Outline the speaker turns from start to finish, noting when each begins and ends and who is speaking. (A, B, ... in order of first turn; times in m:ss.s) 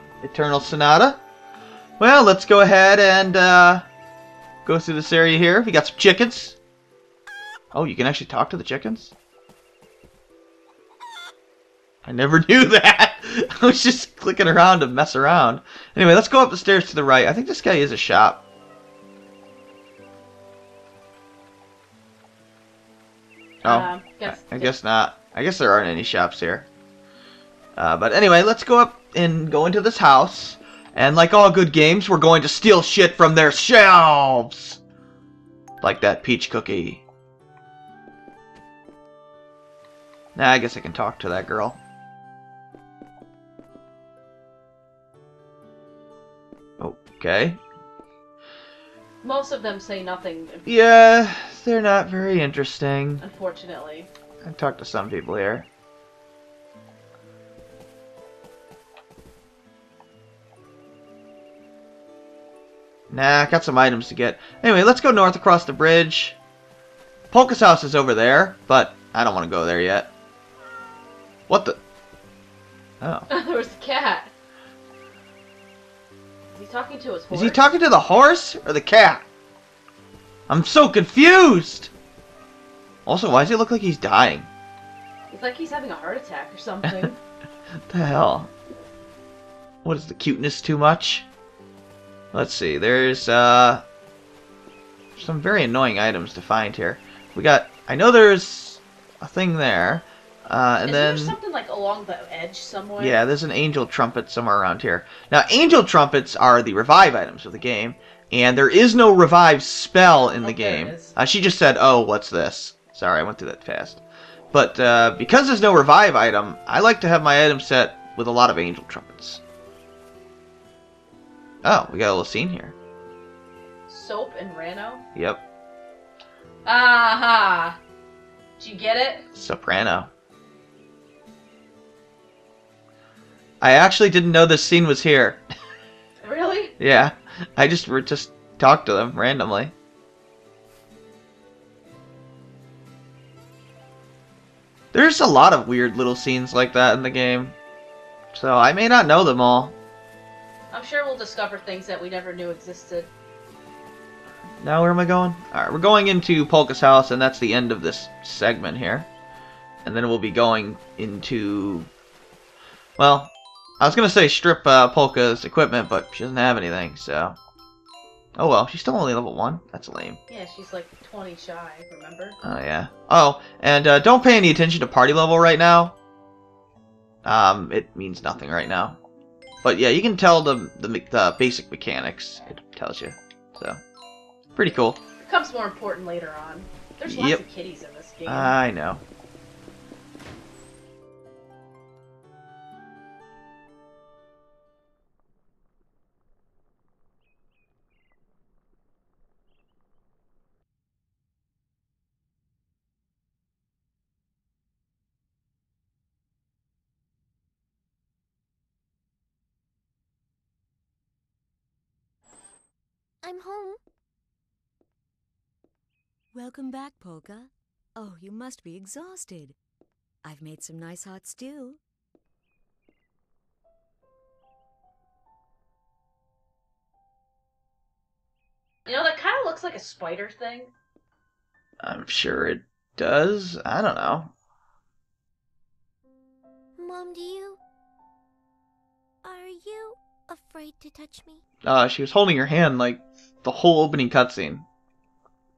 0:00.2-0:01.2 A
0:02.0-0:03.8 A
0:04.6-0:06.6 A
0:07.7-0:09.1 A
0:12.0-0:18.4 A
0:23.6-0:26.7 A
0:23.6-0:24.7 B
0:27.8-0:34.8 A
0:35.8-0:37.0 A
0:40.4-0:41.8 A
0:46.8-0:47.6 A
0:49.2-0:50.7 B
0:50.6-0:53.2 A
0:53.2-0:54.1 B
0:54.4-0:55.7 A
1:03.1-1:06.4 A
1:07.3-1:10.1 A
1:11.5-1:11.8 A
1:13.0-1:13.3 A
1:13.3-1:14.3 B
1:16.5-1:17.6 B
1:17.3-1:19.2 A
1:20.5-1:21.9 A
1:23.0-1:24.5 A
1:25.3-1:27.2 B
1:26.8-1:27.1 A
1:27.9-1:28.5 A
1:29.8-1:31.3 A
1:32.3-1:33.8 A
1:35.2-1:41.4 A
1:40.8-1:43.2 B
1:43.0-1:54.0 A
1:50.4-1:51.1 B
1:54.5-1:59.4 A
2:01.6-2:02.7 A
2:03.9-2:05.0 B
2:05.1-2:05.4 A
2:06.6-2:07.8 B
2:08.6-2:09.3 B
2:09.3-2:10.1 A
2:13.6-2:15.4 A
2:16.2-2:16.7 B
2:16.8-2:19.7 A
2:24.9-2:27.5 A
2:28.3-2:29.7 A
2:30.7-2:33.1 B
2:34.6-2:39.1 A
2:39.8-2:41.9 A
2:43.0-2:47.4 A
2:48.4-2:50.2 A
2:50.3-2:52.4 B
2:52.4-2:55.9 A
2:57.2-2:59.0 A
2:59.6-3:03.8 A
3:04.6-3:05.0 A
3:05.2-3:08.5 B
3:07.0-3:07.4 A
3:08.2-3:09.0 A
3:33.2-3:33.8 C
3:36.3-3:39.6 D
3:40.2-3:41.8 D
3:48.8-3:50.7 B
3:51.8-3:54.3 A
3:56.8-3:57.6 C
3:59.2-4:01.4 C
4:01.6-4:04.7 A